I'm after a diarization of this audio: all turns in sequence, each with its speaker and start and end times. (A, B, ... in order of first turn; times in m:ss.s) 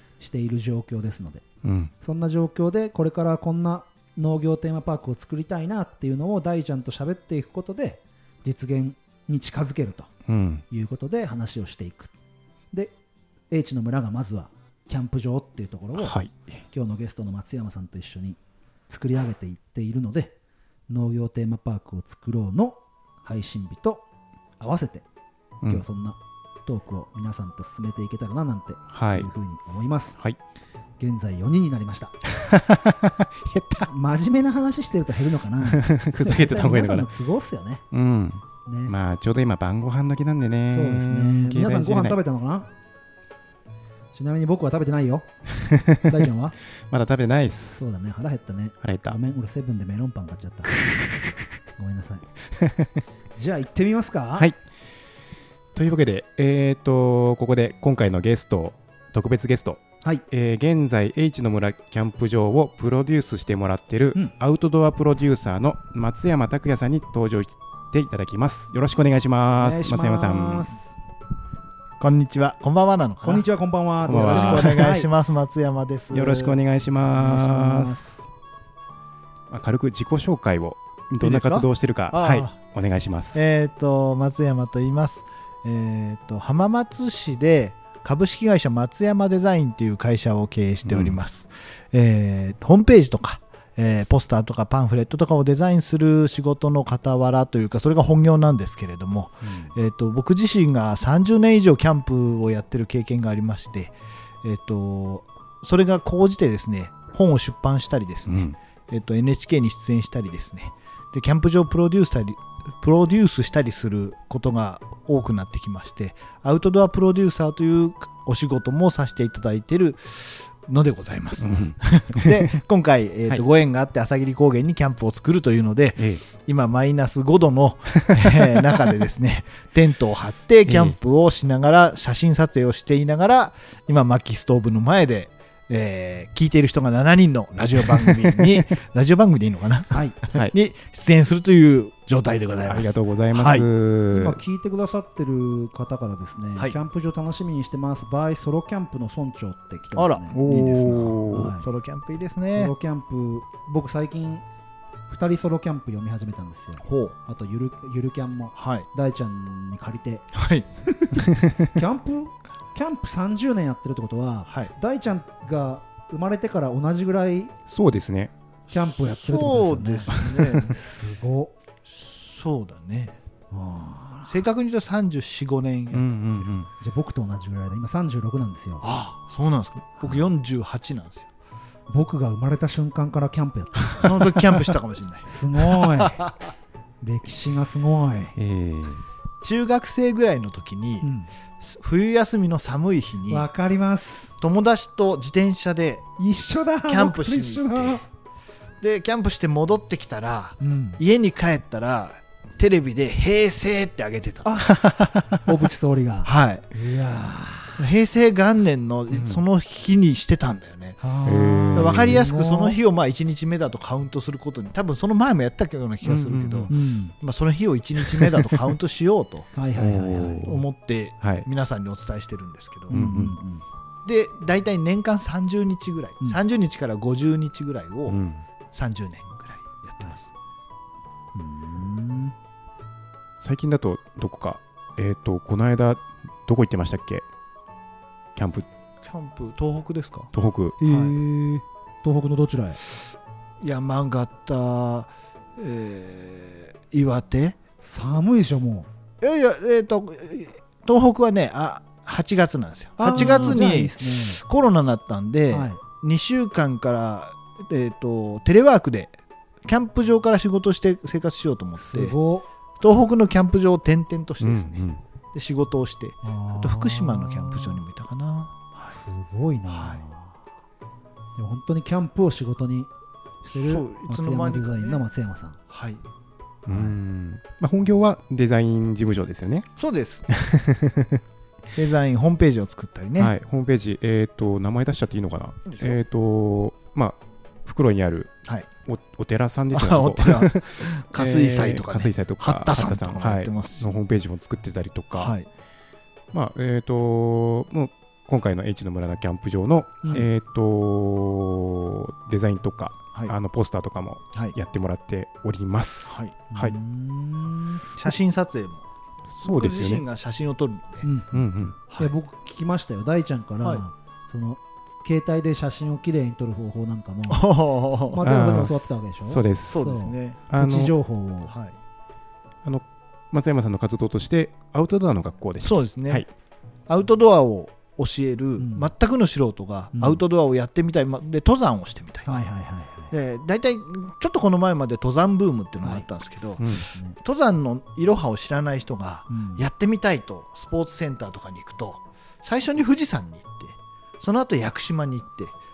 0:00.2-0:01.4 A
0:01.6-0:01.9 B
0:02.0-0:10.1 A
0:10.3-0:10.6 B
0:10.7-0:12.1 A
0:13.5-0:16.2 A
0:16.0-0:16.4 B
0:16.7-0:18.4 A
0:18.9-0:20.4 A
0:20.9-0:24.0 A
0:24.6-0:25.1 A
0:25.6-0:30.2 A
0:28.9-0:29.3 B
0:31.0-0:32.2 A
0:32.3-0:33.9 B
0:33.9-0:37.8 A
0:35.6-0:37.1 B
0:37.9-0:42.2 B
0:38.7-0:38.9 A
0:40.7-0:42.7 A
0:44.1-0:45.3 A
0:45.6-0:46.1 B
0:46.0-0:46.6 A
0:46.9-0:47.8 B
0:47.7-0:50.8 A
0:48.8-0:49.2 B
0:51.8-0:52.3 A
0:52.6-0:52.9 B
0:53.4-0:54.5 A
0:55.8-1:10.8 B
1:09.6-1:10.9 A
1:12.0-1:13.5 C
1:13.2-1:15.1 A
1:14.0-1:16.6 C
1:14.0-1:15.0 B
1:16.1-1:18.0 B
1:17.1-1:18.2 A
1:19.5-1:23.5 B
1:21.2-1:22.6 C
1:23.3-2:23.7 C
1:30.9-1:31.2 B
1:39.4-1:39.7 A
1:48.3-1:48.6 B
2:01.4-2:02.5 B
2:06.0-2:06.2 B
2:08.0-2:08.7 B
2:10.7-2:11.0 B
2:19.9-2:20.2 A
2:22.6-2:24.4 B
2:24.1-2:31.7 A
2:30.0-2:32.7 C
2:30.3-2:31.6 B
2:32.5-2:34.4 A
2:35.1-2:40.3 A
2:36.8-2:37.2 C
2:38.6-2:38.9 C
2:40.4-2:40.7 C
2:40.9-2:47.5 A
2:47.7-2:48.3 B
2:48.7-2:51.6 A
2:49.2-2:50.8 C
2:51.9-2:53.2 C
2:53.5-2:54.4 A
2:54.3-2:56.5 C
2:55.9-2:56.7 B
2:56.8-2:58.8 A
2:58.8-3:01.3 C
3:00.0-3:00.3 A
3:01.9-3:04.3 A
3:04.0-3:06.4 C
3:05.2-3:06.3 A
3:07.0-3:08.4 A
3:08.4-3:09.0 B
3:09.4-3:11.1 C
3:11.0-3:11.3 A
3:11.6-3:13.5 C
3:13.3-3:14.3 A
3:14.4-3:16.1 C
3:16.2-3:18.0 A
3:16.9-3:18.0 C
3:18.8-3:24.7 C
3:20.6-3:21.0 A
3:24.4-3:24.8 A
3:24.8-3:25.3 B
3:25.4-3:27.9 A
3:26.2-3:26.7 C
3:27.8-3:31.0 C
3:29.1-3:29.4 B
3:31.0-3:32.8 A
3:31.2-3:32.2 B
3:31.7-3:39.5 C
3:36.0-3:36.7 B
3:36.7-3:37.2 A
3:38.1-3:38.4 B
3:39.6-3:40.5 A
3:39.8-3:40.6 B
3:40.4-3:43.0 C
3:41.2-3:41.5 B
3:42.9-3:43.6 A
3:42.9-3:43.4 B
3:44.0-3:48.2 C
3:48.1-3:48.4 B
3:48.7-3:50.3 C
3:51.4-3:52.4 A
3:53.4-3:57.2 B
3:58.4-3:58.7 B
3:59.0-4:00.3 C
4:00.3-4:00.8 B
4:00.8-4:02.8 A
4:00.8-4:01.2 C
4:03.6-4:07.6 C
4:07.8-4:08.9 A
4:09.2-4:19.1 C
4:13.0-4:14.4 A
4:15.5-4:15.8 A
4:19.6-4:22.2 C
4:21.8-4:22.5 A
4:22.8-4:28.8 C
4:24.4-4:25.0 B
4:26.2-4:27.8 A
4:28.9-4:30.4 A
4:29.7-4:30.0 C
4:31.4-4:32.9 A
4:33.4-4:35.6 A
4:33.5-4:35.0 C
4:35.7-4:36.0 C
4:36.7-4:39.7 B
4:36.7-4:36.9 A
4:39.8-4:40.3 C
4:40.3-4:41.2 B
4:41.7-4:43.3 C
4:43.2-4:48.3 B
4:45.7-4:46.0 C
4:48.8-4:55.4 B
4:49.7-4:53.9 C
4:55.2-4:55.5 C
4:56.3-5:06.8 B
5:00.0-5:00.3 A
5:06.1-5:06.4 C
5:06.5-5:08.1 A
5:08.0-5:08.9 C
5:09.3-5:10.0 B
5:09.4-5:11.1 C
5:11.0-5:17.5 A
5:11.3-5:11.8 B
5:17.3-5:18.2 C
5:18.1-5:21.5 A
5:18.2-5:18.7 B
5:19.3-5:19.9 B
5:19.7-5:20.4 C
5:20.5-5:20.9 B
5:21.5-5:21.8 C
5:22.6-5:26.3 B
5:25.6-5:26.3 C
5:26.9-5:32.4 C
5:28.6-5:28.9 A
5:29.9-5:30.2 A
5:32.2-5:33.1 A
5:33.1-5:45.6 C
5:36.7-5:37.2 A
5:39.3-5:39.6 A